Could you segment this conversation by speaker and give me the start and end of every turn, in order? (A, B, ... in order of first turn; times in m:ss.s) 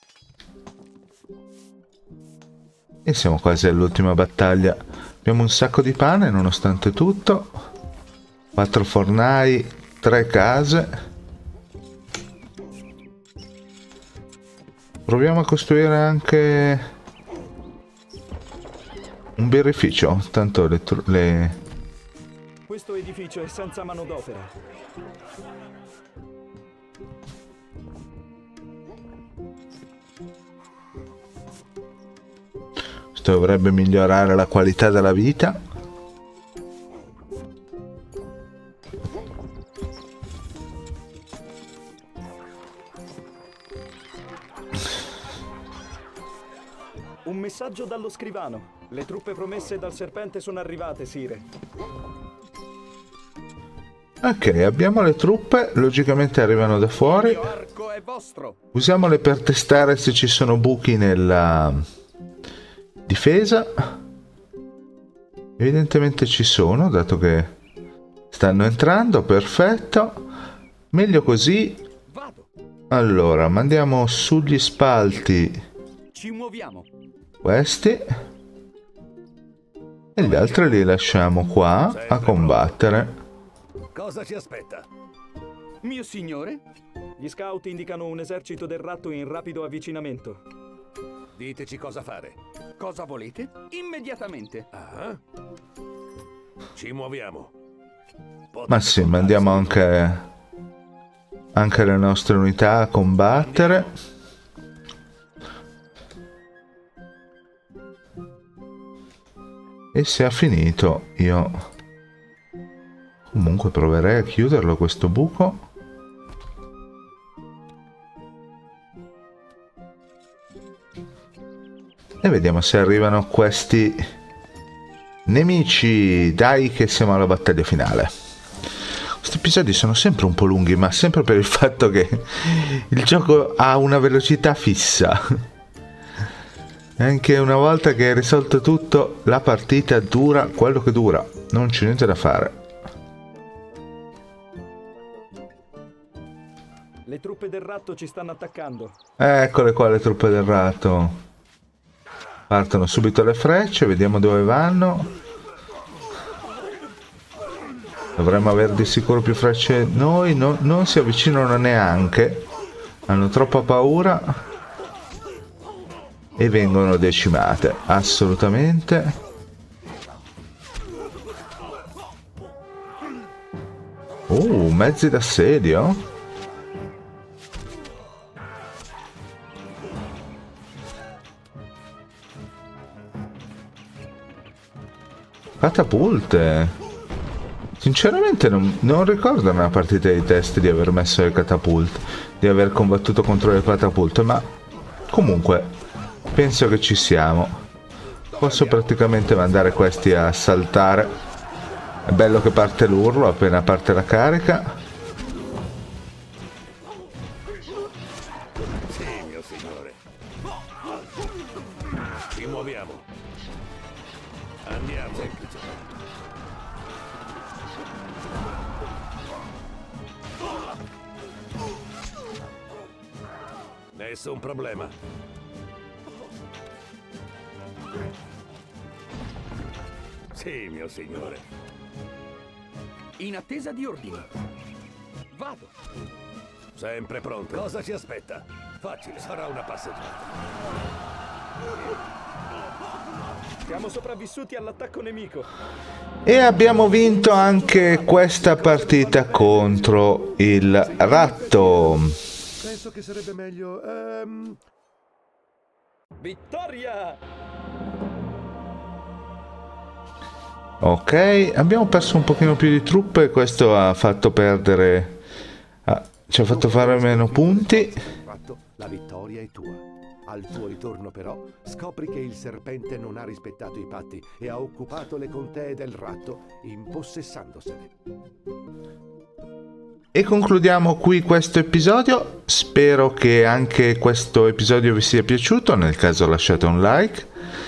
0:03.0-0:07.6 A
0:08.6-0:10.9 A
0:15.1-0:16.9 A
0:19.4-0:21.6 A
0:22.7-0:24.5 B
0:33.1-0:35.6 A
0:47.2-0:51.5 B
0:54.2-0:57.5 A
0:57.0-0:58.6 C
0:58.7-1:01.8 A
1:03.1-1:04.0 A
1:05.6-1:07.5 A
1:08.3-1:10.3 A
1:10.9-1:11.8 A
1:12.1-1:12.5 C
1:12.9-1:15.6 A
1:16.1-1:16.9 C
1:17.4-1:18.1 A
1:20.2-1:23.1 A
1:20.2-1:20.7 C
1:21.9-1:22.8 D
1:23.9-1:24.9 D
1:25.8-1:26.6 C
1:27.2-1:30.4 B
1:31.4-1:32.4 D
1:32.8-1:34.7 C
1:34.7-1:35.2 D
1:36.7-1:37.5 D
1:38.5-1:39.9 D
1:38.7-1:40.3 A
1:41.5-1:43.9 A
1:43.3-1:44.0 D
1:49.9-1:51.6 A
1:53.3-1:55.6 A
2:02.2-2:04.0 A
2:05.3-2:08.1 A
2:09.2-2:15.2 A
2:17.0-2:22.6 A
2:27.1-2:29.0 B
2:29.2-2:31.2 A
2:32.5-2:35.1 A
2:38.2-2:42.5 A
2:43.1-2:44.4 A
2:46.4-2:49.2 A
2:54.3-2:56.0 A
3:05.6-3:06.8 A
3:07.8-3:14.5 A
3:15.1-3:15.7 A
3:16.3-3:17.6 A
3:18.4-3:18.9 E
3:18.4-3:21.2 A
3:22.1-3:24.8 A
3:28.9-3:30.0 D
3:32.3-3:33.1 D
3:34.6-3:35.9 D
3:43.9-3:44.9 D
3:50.3-3:51.4 D
3:53.2-3:54.3 C
3:55.3-3:55.7 C
3:56.8-4:00.3 D
4:03.6-4:05.5 B
4:06.2-4:12.2 A
4:07.0-4:10.0 B
4:10.8-4:12.0 E
4:12.6-4:14.6 E
4:16.2-4:17.2 B
4:20.8-4:25.2 A
4:25.9-4:28.0 A
4:26.5-4:37.9 E
4:40.1-4:47.3 A